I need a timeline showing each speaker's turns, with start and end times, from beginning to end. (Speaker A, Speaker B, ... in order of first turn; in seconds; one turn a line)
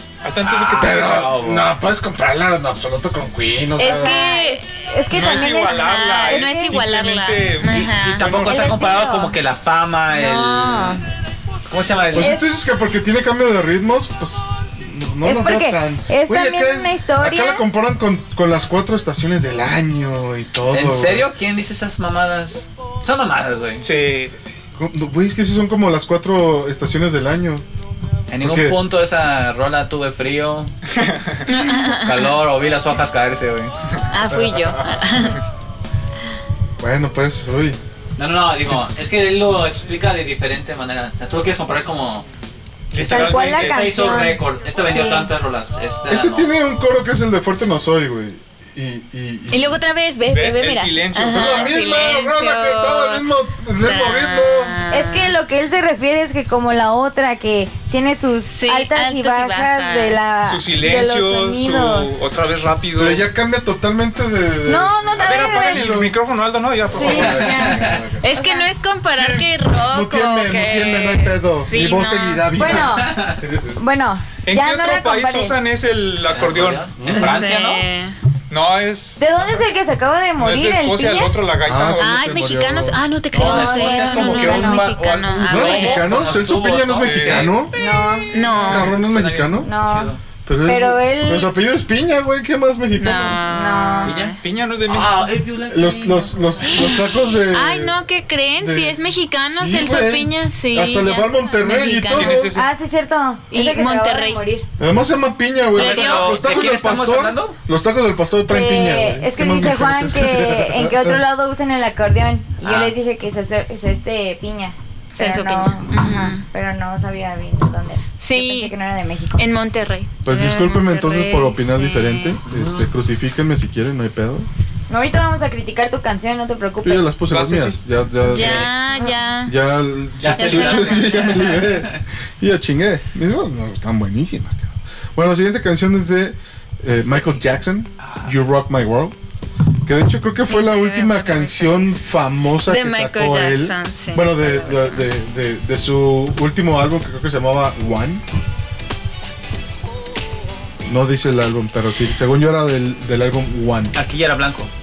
Speaker A: 0.2-1.4
Speaker B: 0.4-1.7
Speaker C: 0.7-4.2
Speaker D: 3.8-6.8
Speaker E: 3.8-8.2
Speaker A: 5.1-8.7
Speaker B: 7.6-11.0
Speaker D: 8.3-9.4
Speaker D: 10.1-11.0
Speaker B: 11.7-12.3
Speaker C: 12.1-21.3
Speaker D: 12.2-12.5
Speaker D: 15.2-17.6
Speaker B: 20.7-23.9
Speaker A: 23.8-24.6
Speaker C: 24.8-27.6
Speaker B: 28.3-30.7
Speaker C: 28.4-28.8
Speaker A: 30.9-31.4
Speaker E: 31.5-32.4
Speaker B: 31.8-33.7
Speaker E: 34.1-35.4
Speaker C: 34.3-34.8
Speaker C: 36.8-37.8
Speaker B: 38.2-42.2
Speaker A: 42.9-44.2
Speaker D: 43.0-45.3
Speaker B: 43.0-46.5
Speaker C: 46.1-49.8
Speaker E: 49.5-53.2
Speaker A: 50.3-51.8
Speaker C: 51.3-54.8
Speaker E: 53.8-55.4
Speaker D: 54.9-62.2
Speaker E: 58.5-60.3
Speaker A: 60.4-63.2
Speaker C: 62.9-66.2
Speaker D: 64.7-65.9
Speaker A: 65.2-67.5
Speaker C: 66.8-68.3
Speaker D: 66.9-68.7
Speaker B: 67.0-68.0
Speaker E: 68.2-72.5
Speaker C: 69.1-73.8
Speaker D: 72.5-75.6
Speaker B: 73.0-73.4
Speaker A: 74.4-76.9
Speaker B: 76.3-77.8
Speaker C: 77.0-77.4
Speaker E: 77.2-78.2
Speaker A: 78.5-79.2
Speaker D: 79.2-81.4
Speaker A: 80.4-82.3
Speaker C: 81.6-83.0
Speaker E: 82.0-86.1
Speaker B: 83.3-87.5
Speaker D: 83.3-84.8
Speaker C: 85.5-87.7
Speaker A: 87.0-87.5
Speaker D: 87.8-88.3
Speaker E: 88.3-88.9
Speaker B: 88.5-90.2
Speaker C: 88.6-89.7
Speaker D: 89.6-90.1
Speaker C: 90.4-93.4
Speaker D: 90.7-91.5
Speaker E: 93.0-94.4
Speaker D: 93.0-94.2
Speaker B: 94.0-96.9
Speaker A: 94.4-95.2
Speaker C: 95.7-98.0
Speaker E: 96.8-102.4
Speaker C: 98.6-99.0
Speaker C: 99.6-102.5
Speaker A: 102.1-102.7
Speaker D: 102.5-104.6
Speaker E: 103.5-104.4
Speaker C: 104.8-111.2
Speaker B: 105.7-107.6
Speaker E: 105.8-106.7
Speaker D: 108.5-119.4
Speaker B: 112.6-112.9
Speaker E: 115.1-116.4
Speaker E: 118.2-118.7
Speaker E: 119.4-122.4
Speaker C: 120.2-124.5
Speaker B: 122.5-122.9
Speaker D: 124.9-127.2
Speaker C: 126.8-128.7
Speaker A: 127.3-127.8
Speaker E: 128.2-129.6
Speaker C: 129.4-139.2
Speaker B: 130.2-132.0
Speaker E: 130.4-131.1
Speaker B: 137.0-138.3
Speaker C: 139.8-148.2
Speaker E: 140.5-142.1
Speaker E: 142.6-145.1
Speaker C: 150.8-153.9
Speaker B: 153.9-154.7